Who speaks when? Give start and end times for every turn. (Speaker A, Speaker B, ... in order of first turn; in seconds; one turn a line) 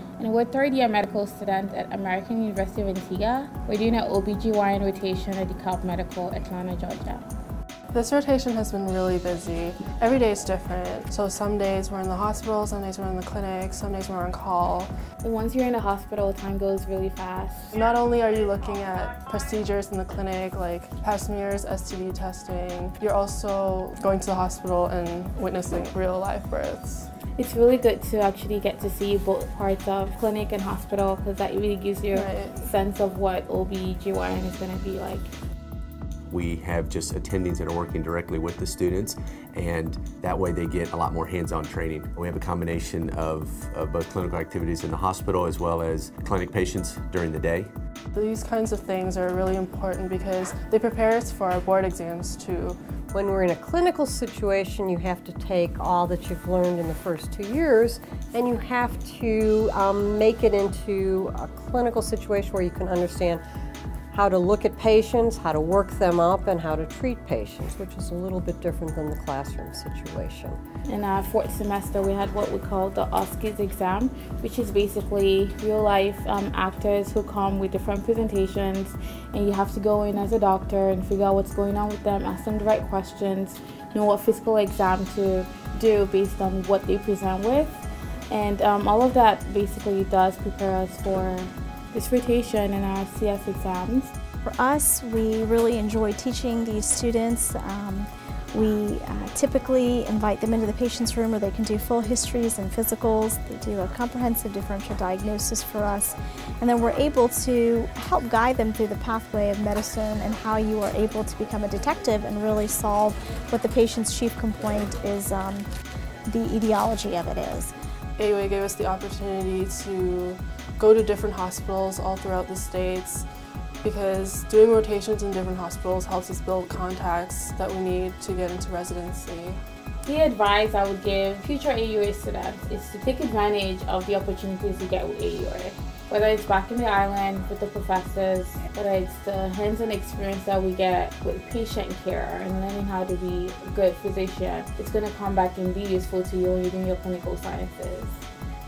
Speaker A: 0.2-7.3
Speaker B: 7.9-14.9
Speaker A: 15.2-17.7
Speaker B: 17.7-27.1
Speaker A: 27.4-35.3
Speaker B: 32.1-32.6
Speaker C: 36.3-47.7
Speaker B: 48.1-52.8
Speaker D: 53.1-63.4
Speaker D: 64.1-70.6
Speaker A: 70.9-94.1
Speaker E: 94.5-115.7
Speaker E: 116.3-117.7
Speaker B: 118.2-123.3
Speaker B: 123.8-129.6
Speaker A: 130.1-148.2